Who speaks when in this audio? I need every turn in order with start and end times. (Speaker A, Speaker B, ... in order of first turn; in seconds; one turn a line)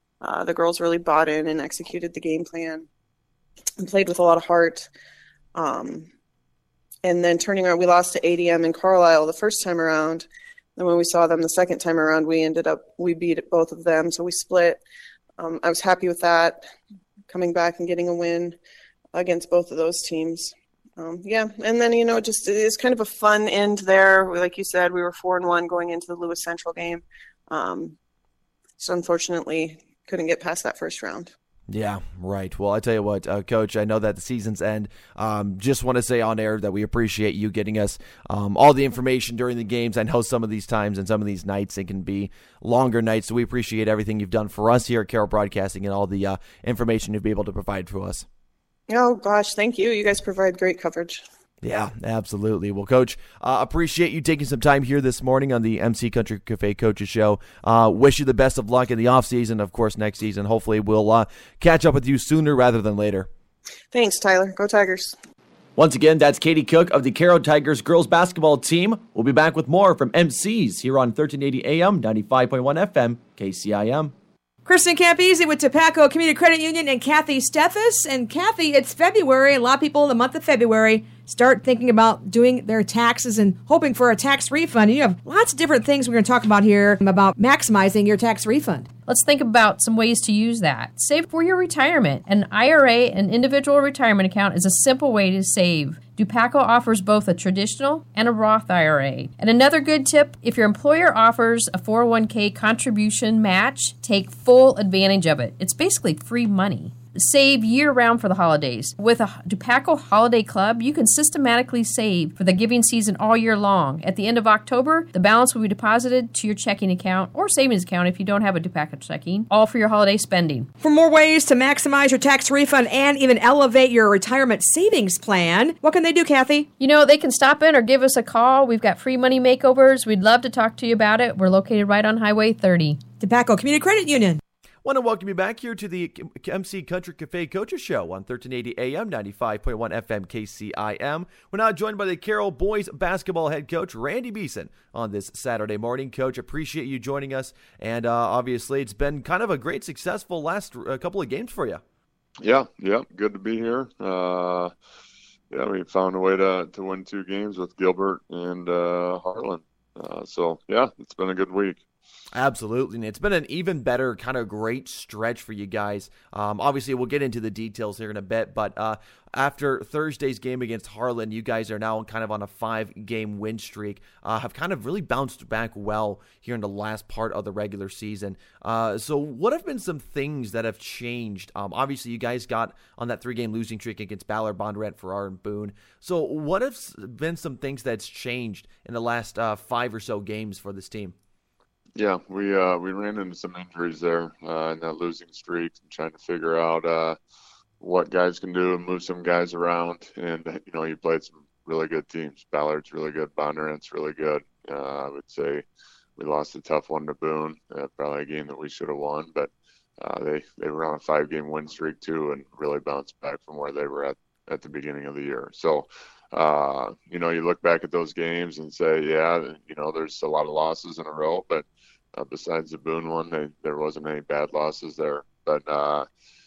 Speaker A: 0.2-2.9
Speaker A: 3.8-4.9
Speaker A: 5.5-6.1
Speaker A: 7.0-14.8
Speaker A: 15.4-16.6
Speaker A: 17.3-18.6
Speaker A: 19.1-28.0
Speaker A: 28.8-31.3
Speaker B: 31.7-48.2
Speaker A: 48.9-51.2
Speaker B: 51.6-63.3
Speaker A: 63.9-65.2
Speaker B: 65.8-74.1
Speaker C: 74.7-88.9
Speaker D: 89.1-120.7
Speaker C: 120.8-126.7
Speaker D: 126.8-133.1
Speaker C: 133.1-134.4
Speaker B: 134.8-151.8
Speaker E: 152.4-154.7
Speaker E: 155.5-161.8
Speaker B: 162.3-191.1
Speaker E: 191.9-197.2
Speaker E: 197.8-205.6
Speaker E: 206.2-226.1